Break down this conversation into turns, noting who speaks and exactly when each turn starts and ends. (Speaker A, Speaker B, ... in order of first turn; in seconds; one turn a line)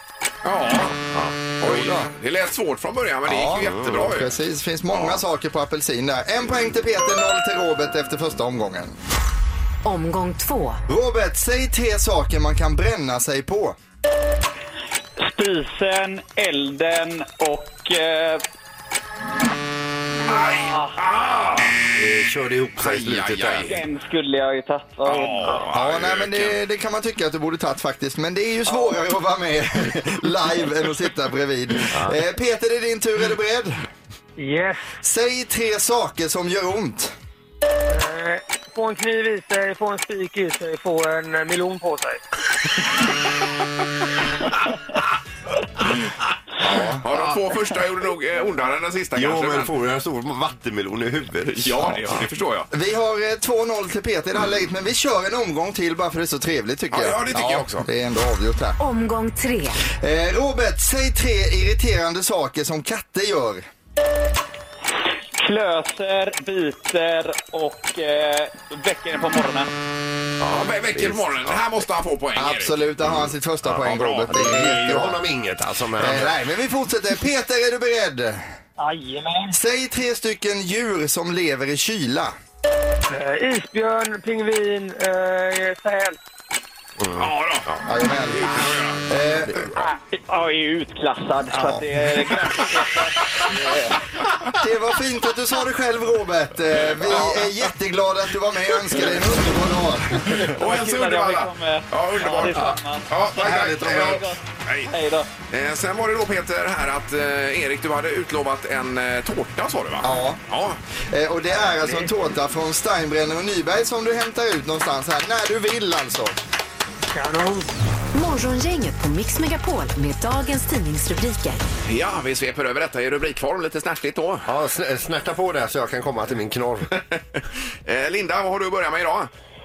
Speaker A: 0.4-1.0
Speaker B: 1.1-1.4
Speaker A: 1.6-4.3
Speaker C: 1.7-2.0
Speaker C: 3.3-8.9
Speaker A: 4.9-5.2
Speaker D: 9.8-10.8
Speaker C: 10.9-13.8
Speaker E: 15.2-18.4
Speaker A: 20.3-21.8
Speaker E: 20.6-20.9
Speaker B: 21.9-23.7
Speaker A: 22.8-23.8
Speaker E: 23.7-25.6
Speaker A: 25.1-26.6
Speaker C: 25.7-33.8
Speaker F: 34.4-34.9
Speaker C: 35.0-37.1
Speaker F: 37.9-42.2
Speaker A: 46.6-49.7
Speaker B: 49.1-52.3
Speaker A: 51.5-52.7
Speaker C: 52.7-58.8
Speaker A: 56.9-57.9
Speaker D: 58.8-59.8
Speaker C: 59.9-63.6
Speaker E: 65.4-69.7
Speaker B: 70.4-71.6
Speaker A: 70.5-72.8
Speaker C: 72.4-75.2
Speaker A: 73.8-74.7
Speaker B: 74.3-76.4
Speaker C: 76.0-78.5
Speaker F: 78.8-79.5
Speaker C: 79.5-82.3
Speaker F: 83.1-86.2
Speaker B: 87.0-87.8
Speaker A: 87.2-87.7
Speaker C: 87.8-89.7
Speaker A: 88.4-89.0
Speaker E: 90.1-94.0
Speaker C: 91.5-91.8
Speaker C: 94.6-100.5
Speaker A: 97.0-97.5
Speaker E: 100.4-105.3
Speaker A: 100.6-104.9
Speaker B: 103.4-104.2
Speaker A: 105.5-110.8
Speaker C: 110.0-110.4
Speaker C: 111.1-116.3
Speaker F: 117.1-117.7
Speaker D: 118.1-121.6
Speaker A: 121.8-124.5
Speaker B: 124.5-126.9
Speaker A: 127.8-129.3